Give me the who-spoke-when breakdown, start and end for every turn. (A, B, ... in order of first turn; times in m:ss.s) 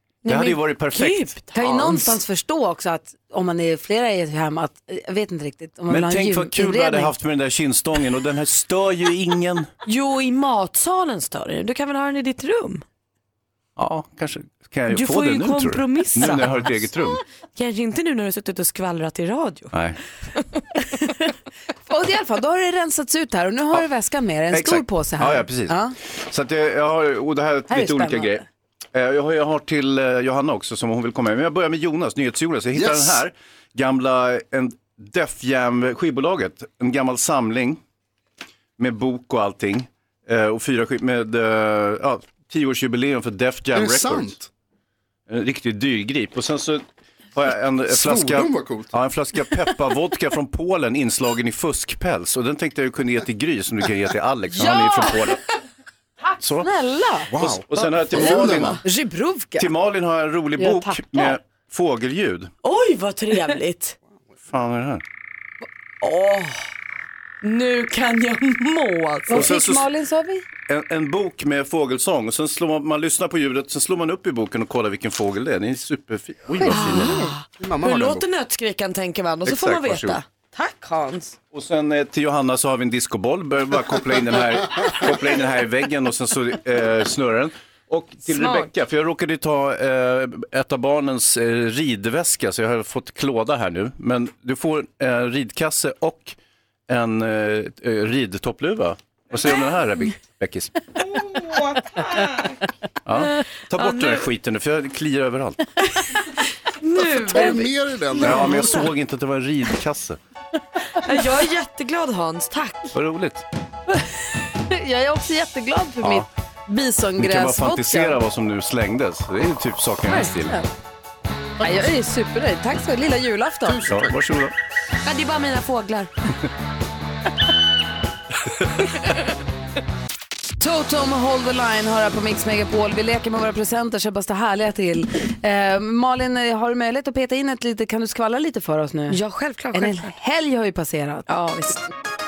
0:00.2-0:02.2 A
0:00.3-0:01.3 B
0:01.5-0:07.1 C
0:05.9-0:09.7 B
0:09.9-0:12.8 A
0:13.8-0:17.2 B
0:14.9-0:16.9 A
0:17.6-0:19.7 A
0:19.7-0:20.0 B
0:20.4-0:20.8 A
0:21.9-0:26.0 C
0:24.5-0:37.8 B
0:27.7-0:28.4 C
0:32.7-0:33.2 D
0:38.8-0:44.4 B
0:43.7-0:44.5 D
0:45.3-0:55.4 B
0:47.9-0:48.9 D
0:54.5-0:55.3 C
0:56.4-0:56.7 B
0:56.6-0:57.3 C
0:57.3-0:58.8 D
0:57.4-0:58.8 B
0:58.2-0:59.7 C
0:59.6-1:02.5 B
1:00.6-1:01.4 C
1:02.6-1:04.0 A
1:04.5-1:05.0 B
1:06.0-1:06.7 A
1:07.4-1:09.5 A
1:09.3-1:10.4 C
1:09.3-1:09.9 B
1:10.7-1:17.2 B
1:16.6-1:17.3 C
1:16.7-1:21.4 A
1:17.6-1:18.2 D
1:19.4-1:20.2 B
1:21.5-1:36.4 B
1:28.3-1:28.7 A
1:36.9-1:40.7 B
1:43.1-1:45.7 B
1:43.8-1:44.3 A
1:46.1-1:47.7 A
1:47.2-1:48.9 D
1:48.2-1:50.2 B
1:48.2-1:48.9 A
1:50.9-1:52.9 A
1:52.9-1:53.5 B
1:53.9-1:58.2 C
1:56.0-1:56.3 B
1:57.2-2:00.6 B
2:00.1-2:00.7 C
2:01.6-2:03.9 C
2:03.7-2:04.2 D
2:03.9-2:04.5 B
2:05.0-2:06.1 A
2:10.6-2:19.2 C
2:19.1-2:20.1 A
2:19.7-2:21.3 C
2:21.3-2:21.8 A